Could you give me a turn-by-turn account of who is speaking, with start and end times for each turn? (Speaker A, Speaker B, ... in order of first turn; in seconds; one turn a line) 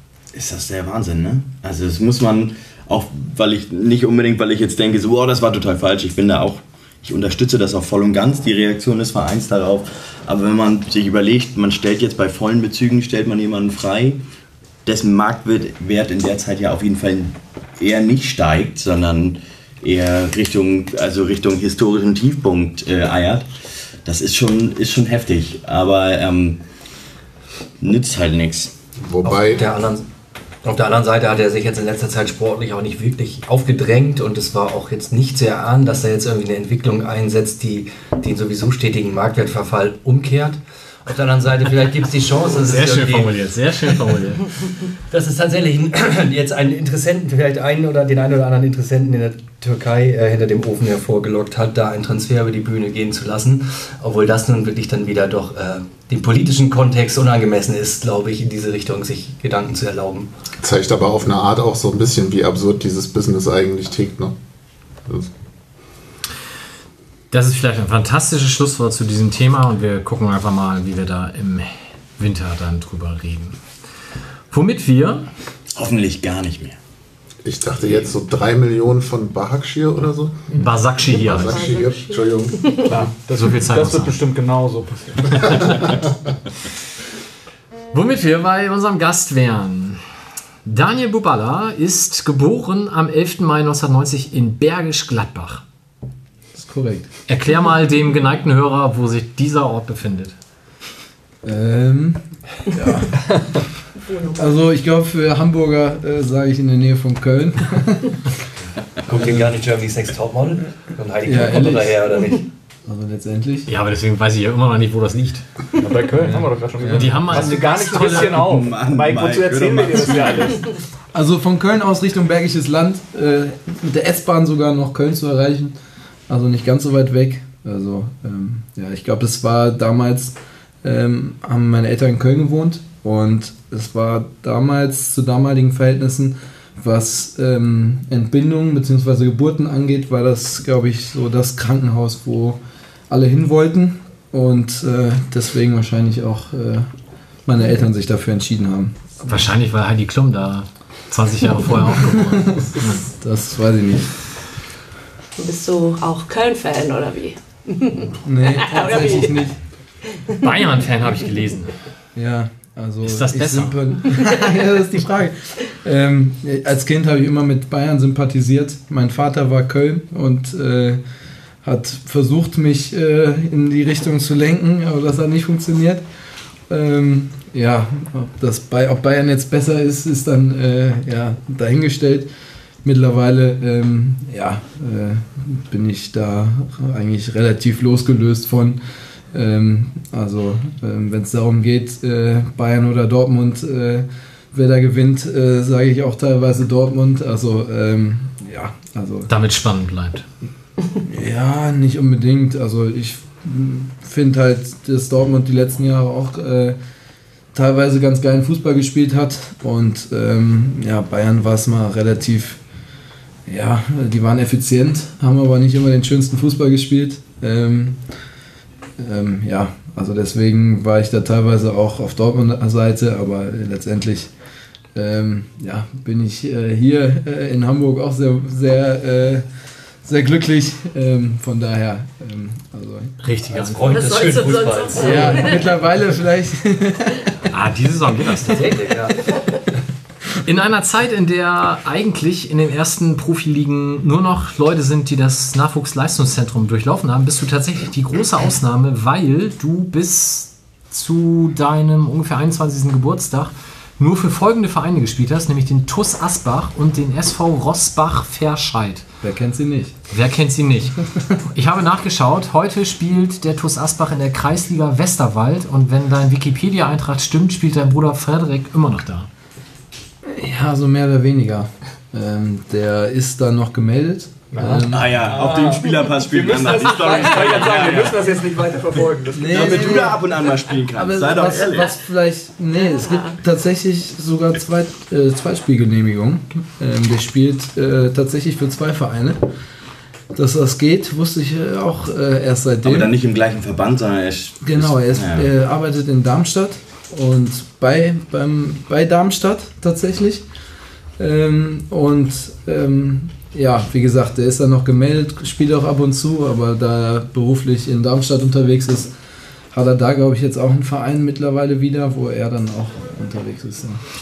Speaker A: 0.3-14.2
Speaker A: 14.8-23.5
Speaker A: 24.1-26.6
Speaker A: 27.8-28.7
Speaker B: 29.0-29.6
Speaker C: 29.2-30.1
Speaker C: 30.6-43.4
Speaker D: 42.6-44.5
Speaker C: 45.1-60.3
Speaker B: 60.6-64.4
Speaker B: 65.1-65.3
Speaker D: 67.3-73.6
Speaker D: 74.5-75.3
Speaker A: 75.8-76.8
Speaker B: 77.4-82.6
Speaker D: 80.6-81.6
Speaker E: 81.2-82.9
Speaker F: 82.9-86.0
Speaker D: 83.3-84.2
Speaker B: 85.4-85.9
Speaker D: 87.9-90.0
Speaker D: 90.7-95.6
Speaker G: 96.5-97.1
Speaker D: 97.3-100.4
Speaker G: 101.4-103.3
Speaker E: 104.0-104.6
Speaker G: 104.4-108.3
Speaker C: 109.0-112.5
Speaker G: 109.2-109.5
Speaker G: 111.2-112.1
Speaker G: 112.9-113.7
Speaker D: 113.7-115.5
Speaker F: 115.8-120.7
Speaker G: 116.2-117.2
Speaker D: 116.9-118.4
Speaker A: 118.0-120.5
Speaker G: 121.1-125.8
Speaker G: 126.3-146.9
Speaker G: 147.5-149.4
Speaker D: 149.3-153.0
Speaker G: 152.0-154.1
Speaker E: 155.4-159.5
Speaker G: 158.2-159.6
Speaker D: 160.4-161.7
Speaker G: 162.2-171.0
Speaker D: 163.0-163.8
Speaker E: 164.2-164.6
Speaker G: 171.6-176.0
Speaker G: 176.7-182.3
Speaker G: 182.8-188.8
Speaker G: 189.3-199.3
Speaker D: 199.3-200.2
Speaker G: 201.1-206.8
Speaker G: 207.5-212.6
Speaker G: 213.5-218.0
Speaker G: 219.0-224.3
Speaker G: 224.9-229.5
Speaker G: 230.0-233.2
Speaker D: 233.2-234.5
Speaker C: 233.5-235.7
Speaker E: 233.9-235.7
Speaker G: 235.0-237.3
Speaker D: 237.5-238.8
Speaker C: 238.3-239.4
Speaker D: 240.4-259.1
Speaker G: 259.2-260.0
Speaker D: 260.1-269.3
Speaker G: 270.2-275.3
Speaker F: 274.5-280.2
Speaker A: 274.7-278.3
Speaker G: 279.3-280.3
Speaker A: 279.5-282.0
Speaker G: 280.9-289.4
Speaker E: 282.8-283.4
Speaker G: 290.3-293.1
Speaker A: 292.8-295.5
Speaker G: 294.6-300.5
Speaker G: 301.2-309.1
Speaker G: 309.7-314.0